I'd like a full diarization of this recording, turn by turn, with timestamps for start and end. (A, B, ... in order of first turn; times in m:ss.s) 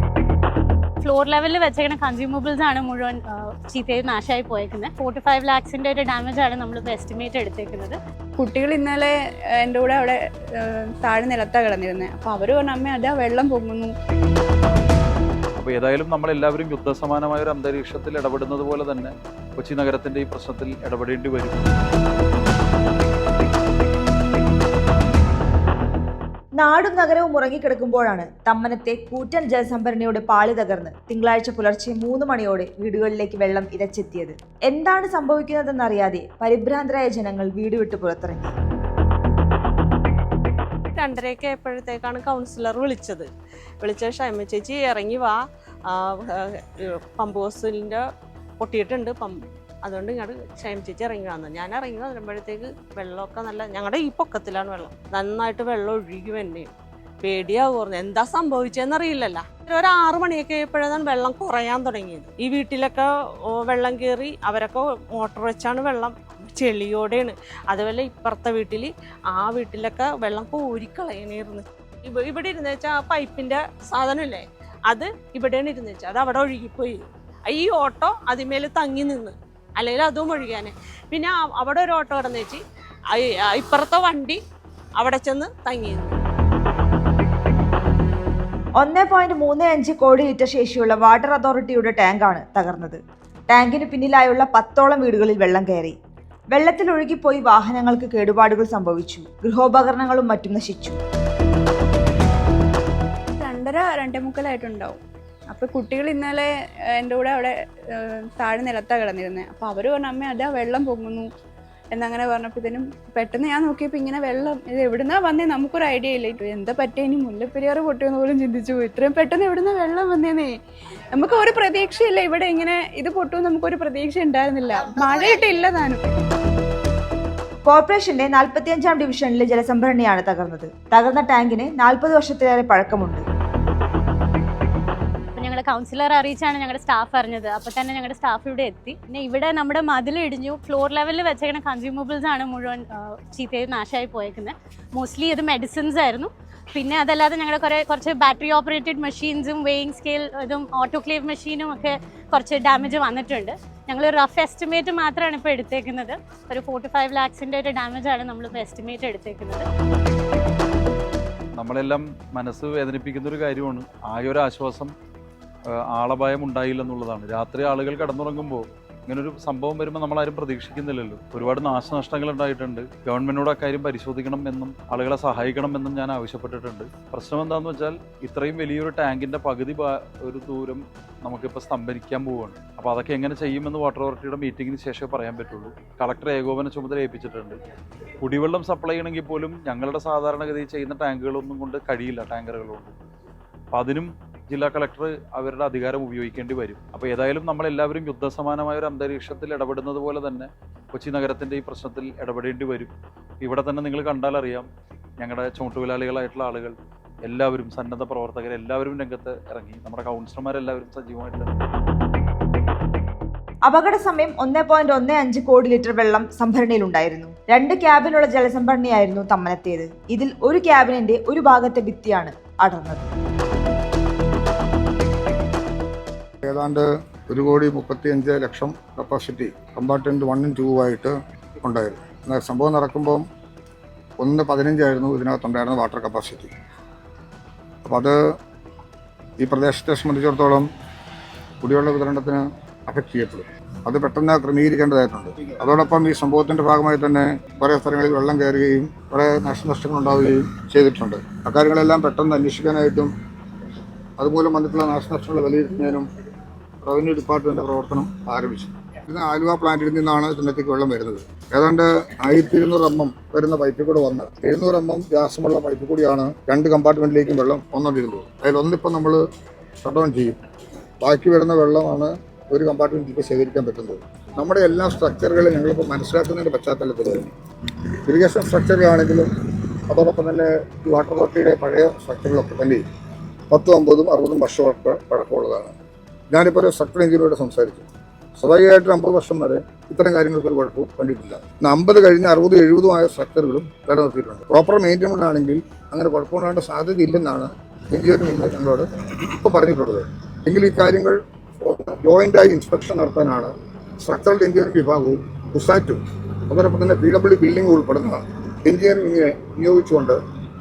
0:01.0-0:08.0 A
0:08.4-0:13.9 B
0:15.6-0:21.6 C
0:26.6-0:38.5 D
0:41.0-0:43.3 E
0:43.8-0:45.4 E
0:47.2-0:48.0 E
0:48.6-0:49.3 E
0:49.8-0:56.7 E
0:57.2-1:03.0 E
1:03.6-1:22.6 E
1:23.2-1:24.4 E
1:25.0-1:26.2 E
1:28.8-1:36.0 D
1:36.5-1:41.0 D
1:43.4-1:51.3 B
1:51.9-2:00.5 B
2:01.2-2:06.1 B
2:07.7-2:13.2 D
2:15.4-2:39.7 A
2:41.6-2:44.9 C
2:45.9-3:07.6 C
3:08.2-3:12.9 C
3:13.7-3:24.7 C
3:25.2-3:26.7 C
3:27.2-3:31.5 C
3:33.6-3:43.1 D
3:46.4-3:53.2 F
3:54.2-3:56.5 F
3:57.8-3:58.2 F
3:59.4-4:00.7 F
4:01.6-4:13.1 F
4:14.2-4:16.1 F
4:16.8-4:29.2 F
4:29.8-4:30.4 F
4:31.0-4:37.3 F
4:38.1-4:39.3 F
4:39.9-4:42.8 F
4:43.5-4:45.8 F
4:46.3-4:47.9 F
4:48.4-5:10.2 F